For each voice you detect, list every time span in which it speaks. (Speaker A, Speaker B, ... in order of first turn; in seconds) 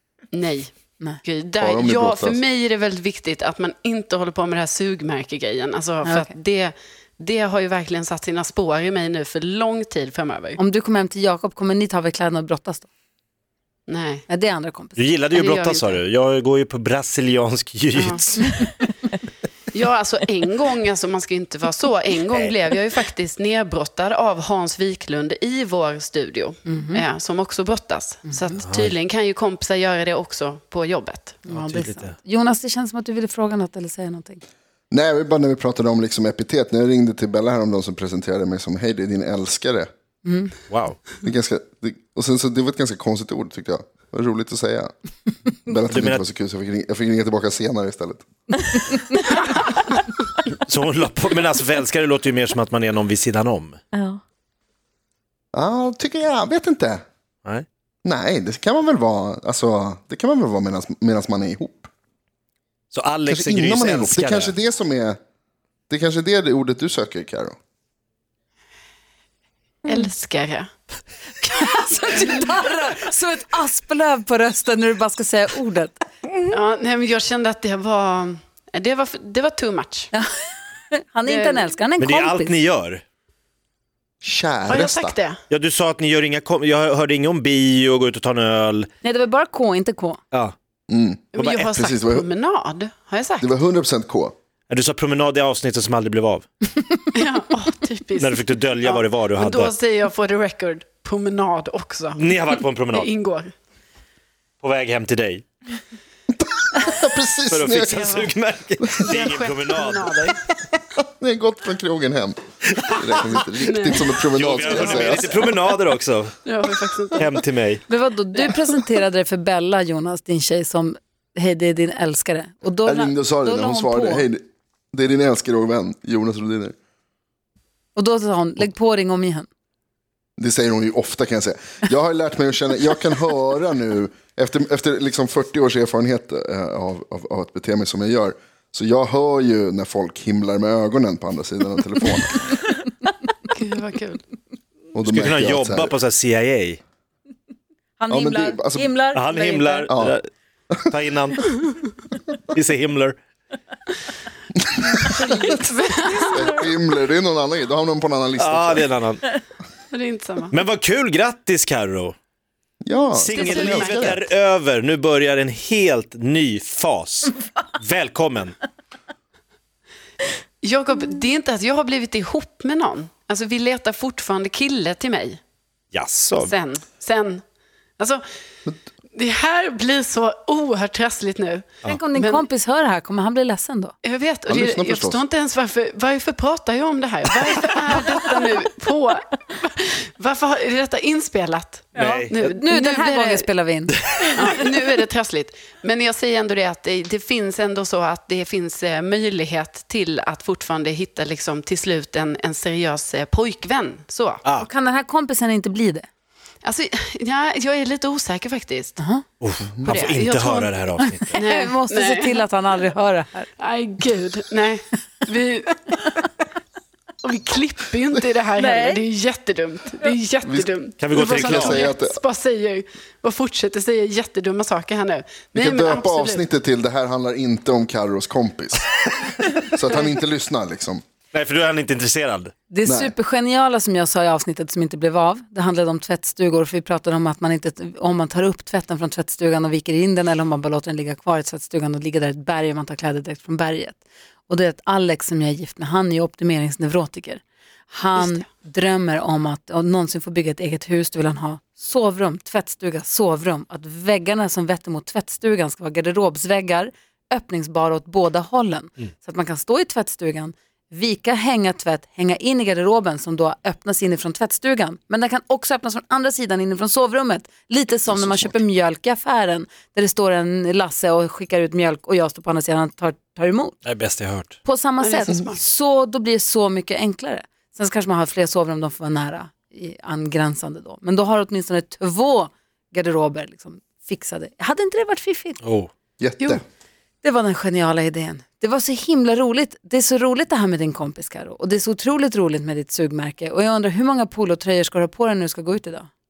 Speaker A: 0.3-10.6, 13.9-14.2, 15.3-16.0, 17.9-18.2, 19.7-31.4, 69.9-70.7, 76.5-80.1, 81.2-81.6, 84.7-85.4, 91.3-93.5, 97.1-102.2, 102.9-103.5, 109.0-110.4, 113.6-115.6, 116.5-117.3, 143.5-144.2, 155.0-156.6, 159.9-160.5, 163.3-164.1, 170.6-175.4, 176.3-177.4, 179.1-182.4, 184.0-193.5, 194.3-204.4, 206.6-209.0, 209.8-210.8, 211.3-212.4, 213.6-216.1, 217.2-226.4, 248.2-248.4, 275.0-275.6
Speaker B: 1.6-2.4, 34.9-39.9, 41.2-44.9, 45.6-48.2, 55.5-57.0, 58.0-61.9, 63.3-65.2, 65.9-67.5, 84.2-85.2, 90.9-92.3, 93.4-94.3, 106.3-108.3, 111.0-115.5, 122.8-124.4, 124.9-126.7, 130.4-142.6, 144.9-145.9, 148.1-148.9, 149.9-150.2, 154.7-155.5, 156.3-158.9, 162.8-164.2, 184.5-185.2, 220.4-222.2, 225.5-231.0, 232.8-233.1, 268.1-268.6, 286.2-286.6
Speaker C: 6.0-6.3, 10.6-12.9, 14.3-15.1, 26.6-27.0, 28.2-28.5, 31.4-34.4, 40.2-40.5, 48.9-49.2, 71.4-75.9, 80.9-82.5, 89.0-90.2, 117.9-124.3, 127.9-129.5, 148.0-149.9, 181.8-183.9, 191.9-194.5, 204.6-206.1, 209.0-209.2, 211.2-213.5, 218.6-219.0, 232.7-273.8, 274.6-285.6, 287.2-296.1
Speaker D: 14.9-18.6, 28.6-28.9, 31.5-32.1, 40.7-41.0, 45.9-46.2, 50.6-53.8, 62.9-64.5, 82.0-83.0, 85.5-88.9, 91.3-91.8, 94.7-96.5, 98.2-99.7, 102.1-103.1, 104.6-105.5, 107.5-110.1, 114.3-116.4, 117.2-117.8, 145.0-146.8, 149.1-150.3, 150.9-151.8, 152.5-153.2, 158.4-159.2, 160.5-162.1, 163.1-168.6, 175.9-176.5, 191.9-192.3, 209.4-211.4, 221.0-221.8, 231.3-232.5, 273.8-274.6, 285.6-285.9